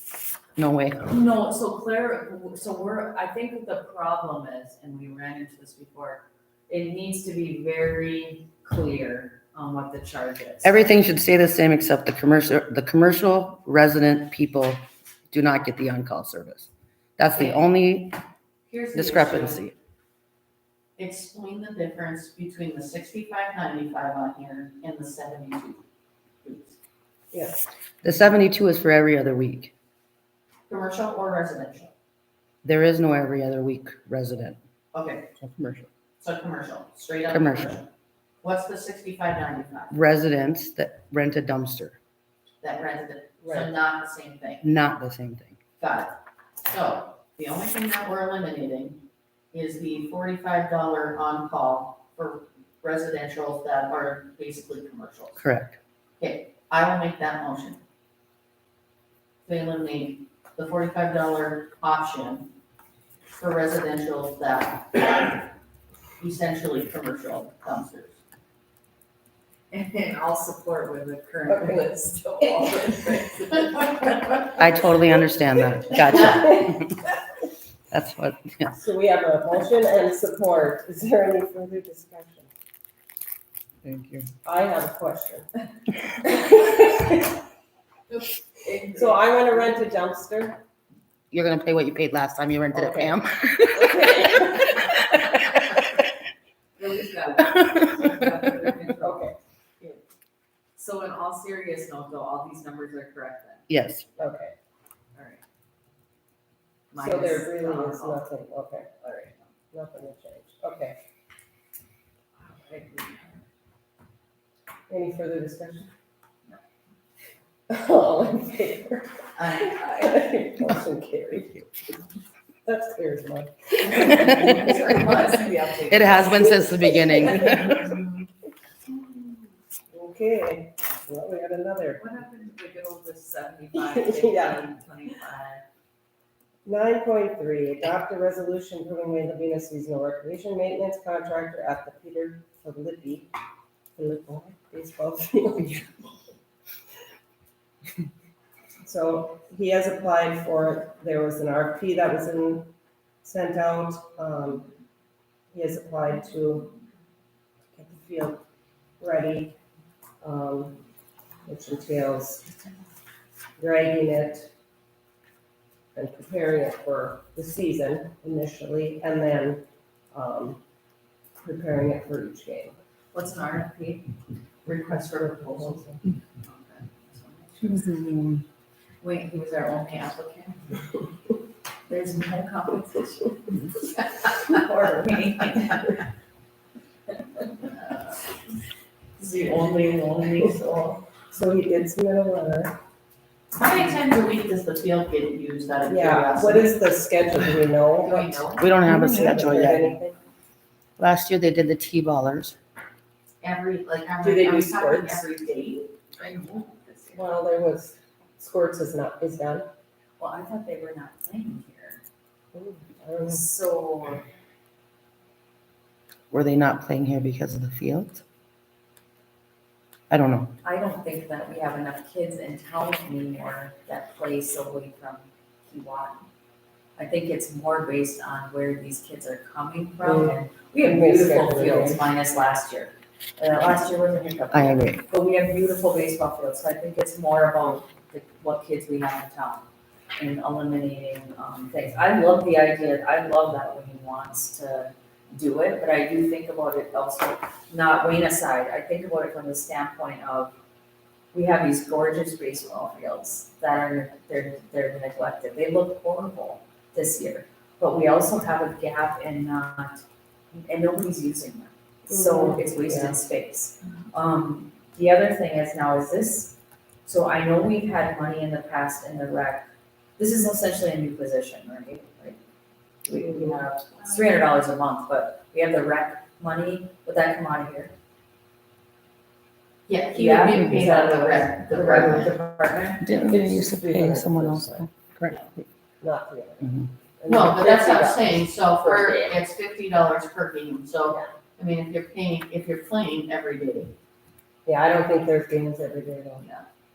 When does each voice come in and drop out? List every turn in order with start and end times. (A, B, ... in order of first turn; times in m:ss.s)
0:00.6-0:01.1 A
0:01.0-0:10.8 B
0:10.6-0:18.2 A
0:17.3-0:17.6 C
0:18.7-0:19.6 C
0:18.9-0:19.7 A
0:21.0-0:25.8 C
0:26.4-0:26.8 C
0:27.3-0:27.6 D
0:28.0-0:29.7 A
0:30.7-0:31.9 C
0:32.6-0:34.6 A
0:34.9-0:35.3 C
0:35.4-0:35.9 A
0:36.2-0:37.8 C
0:37.3-0:37.8 A
0:38.4-0:40.0 C
0:39.9-0:42.0 A
0:42.6-0:44.6 C
0:43.4-0:43.7 D
0:44.6-0:45.6 A
0:45.8-0:55.4 C
0:55.4-0:55.8 A
0:56.2-0:57.8 C
0:59.4-1:02.5 C
1:03.4-1:05.5 C
1:06.2-1:08.2 C
1:09.7-1:14.4 B
1:11.5-1:12.7 D
1:14.5-1:17.0 A
1:16.2-1:16.6 D
1:17.9-1:18.7 A
1:18.7-1:22.5 D
1:23.8-1:24.3 A
1:24.4-1:25.5 D
1:26.2-1:27.2 D
1:28.1-1:29.5 B
1:28.9-1:30.6 D
1:31.3-1:34.7 A
1:32.7-1:35.0 D
1:36.8-1:40.0 B
1:39.0-1:39.4 D
1:40.8-1:44.3 B
1:43.7-1:44.0 A
1:44.2-1:44.5 D
1:45.1-1:45.4 B
1:46.9-1:48.3 B
1:47.0-1:48.9 D
1:49.0-1:49.5 B
1:49.7-1:51.0 D
1:52.4-1:53.4 B
1:54.9-1:55.9 D
1:57.7-2:01.7 D
1:59.4-2:00.1 C
1:59.8-2:00.3 B
2:02.6-2:05.0 D
2:03.8-2:06.4 B
2:05.9-2:07.9 A
2:06.9-2:07.7 D
2:09.9-2:12.0 D
2:12.0-2:15.6 B
2:13.8-2:14.6 D
2:16.6-2:23.3 D
2:24.0-2:25.8 D
2:28.8-2:32.7 D
2:33.2-2:34.7 D
2:35.5-2:36.7 D
2:37.7-2:38.4 D
2:39.0-2:39.5 D
2:40.2-2:40.8 D
2:41.4-2:42.4 D
2:43.6-2:44.5 D
2:45.9-2:50.6 D
2:51.4-2:52.8 D
2:53.1-2:54.1 B
2:54.6-2:55.9 C
2:55.3-2:55.8 D
2:56.4-2:58.0 B
2:57.7-2:58.4 A
2:59.0-3:00.6 B
3:01.9-3:03.5 B
3:04.2-3:06.0 B
3:09.2-3:11.0 B
3:11.3-3:12.8 D
3:13.5-3:18.8 C
3:15.9-3:20.2 D
3:18.6-3:20.0 A
3:21.0-3:22.6 A
3:23.4-3:26.9 C
3:24.2-3:25.2 D
3:26.6-3:27.1 B
3:27.1-3:29.7 D
3:30.2-3:32.0 B
3:32.5-3:33.4 D
3:33.3-3:34.2 B
3:36.3-3:38.2 A
3:40.1-3:40.6 A
3:40.6-3:46.2 B
3:47.0-3:59.6 B
3:50.0-3:52.0 D
3:54.5-3:55.0 A
4:00.2-4:10.5 B
4:11.3-4:32.4 B
4:22.1-4:23.2 D
4:33.0-4:37.9 B
4:39.9-4:42.3 C
4:40.1-4:43.0 B
4:41.8-4:42.3 D
4:43.0-4:45.4 A
4:43.1-4:44.9 D
4:46.0-4:49.4 D
4:46.6-4:46.9 A
4:47.3-4:53.9 C
4:54.6-4:56.4 D